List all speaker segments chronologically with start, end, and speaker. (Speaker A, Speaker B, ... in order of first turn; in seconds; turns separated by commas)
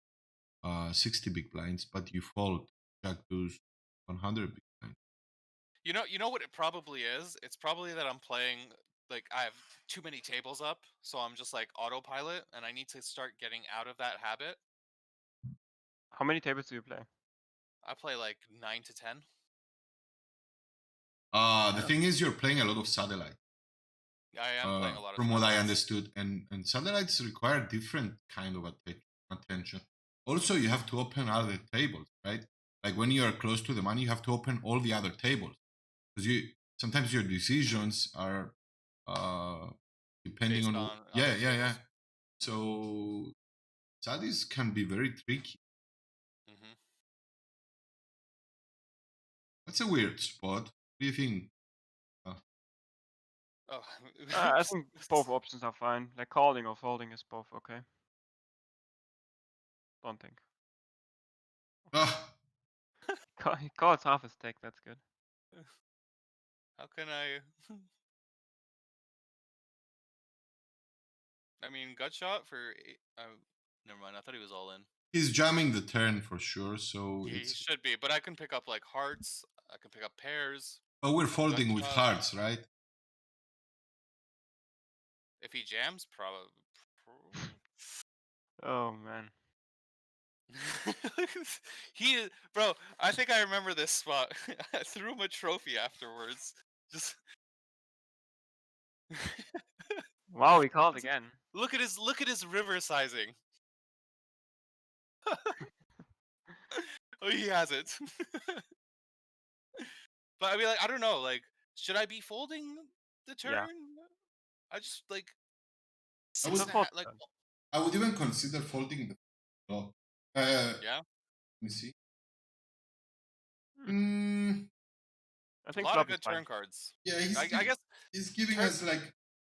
Speaker A: 0.6-5.0, Speaker B: 5.8-14.6, Speaker C: 16.1-17.1, Speaker B: 17.8-19.2, Speaker A: 21.3-23.4, Speaker B: 24.3-25.8, Speaker A: 24.6-35.5, Speaker A: 36.1-39.7, Speaker A: 40.2-41.8, Speaker B: 40.5-41.8, Speaker A: 42.4-43.3, Speaker A: 44.0-45.6, Speaker B: 46.5-46.8, Speaker A: 49.6-51.5, Speaker B: 53.7-55.2, Speaker C: 54.3-57.9, Speaker C: 60.0-60.4, Speaker A: 61.9-62.3, Speaker C: 63.4-65.0, Speaker B: 66.8-67.9, Speaker B: 71.6-74.9, Speaker A: 75.1-77.6, Speaker B: 77.2-80.8, Speaker A: 81.0-82.6, Speaker B: 81.4-82.1, Speaker B: 85.4-87.6, Speaker C: 88.6-89.3, Speaker B: 90.5-97.2, Speaker B: 99.1-100.0, Speaker C: 100.3-101.3, Speaker B: 100.9-103.3, Speaker B: 105.3-105.6, Speaker B: 106.7-108.6, Speaker B: 109.8-114.0, Speaker C: 113.4-113.7, Speaker B: 114.7-115.3, Speaker B: 116.3-117.3, Speaker A: 116.4-116.7, Speaker C: 116.5-117.2, Speaker A: 117.7-120.8, Speaker A: 121.6-121.9, Speaker A: 123.9-124.7, Speaker C: 125.6-126.5, Speaker B: 125.7-127.9, Speaker A: 127.0-129.1, Speaker B: 128.5-128.8